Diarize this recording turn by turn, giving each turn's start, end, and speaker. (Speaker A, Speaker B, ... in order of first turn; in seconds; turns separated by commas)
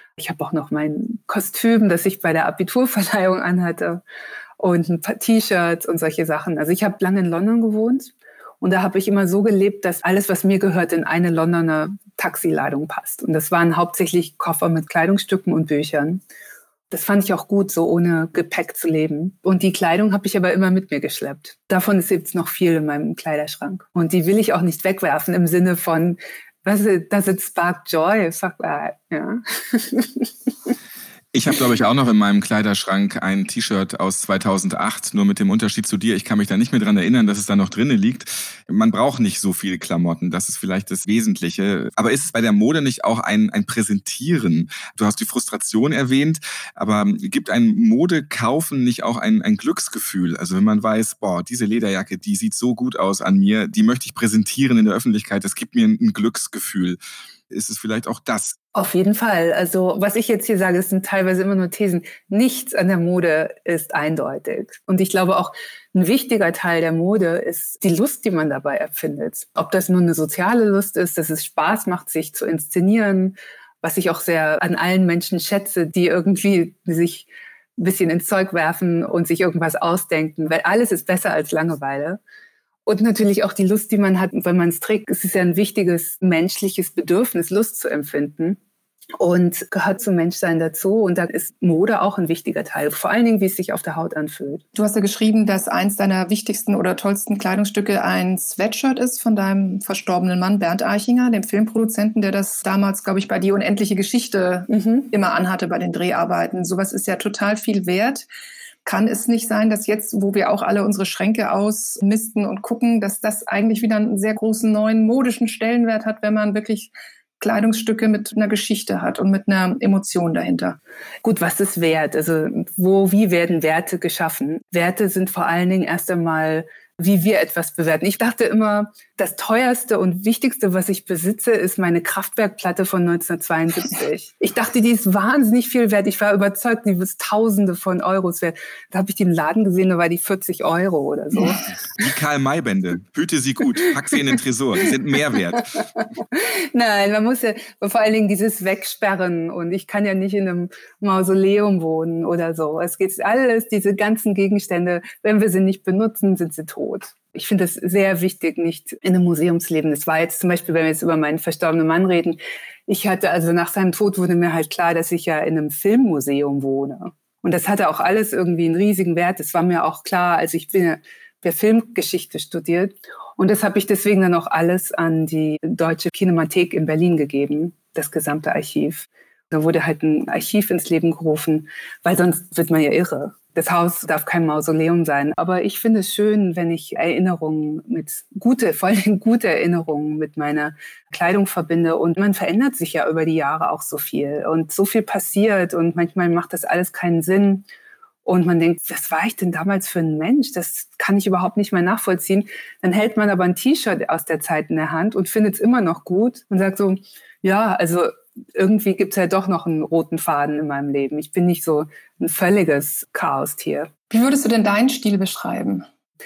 Speaker A: 0.2-4.0, Speaker A: 4.6-16.2, Speaker A: 16.9-30.3, Speaker B: 31.3-58.6, Speaker A: 58.7-82.2, Speaker A: 82.9-88.6, Speaker A: 89.2-94.6, Speaker C: 94.8-108.3, Speaker A: 104.7-105.1, Speaker C: 108.8-120.8, Speaker A: 121.2-141.6, Speaker B: 142.0-145.8, Speaker A: 146.3-197.7, Speaker A: 198.2-213.9, Speaker C: 214.1-215.8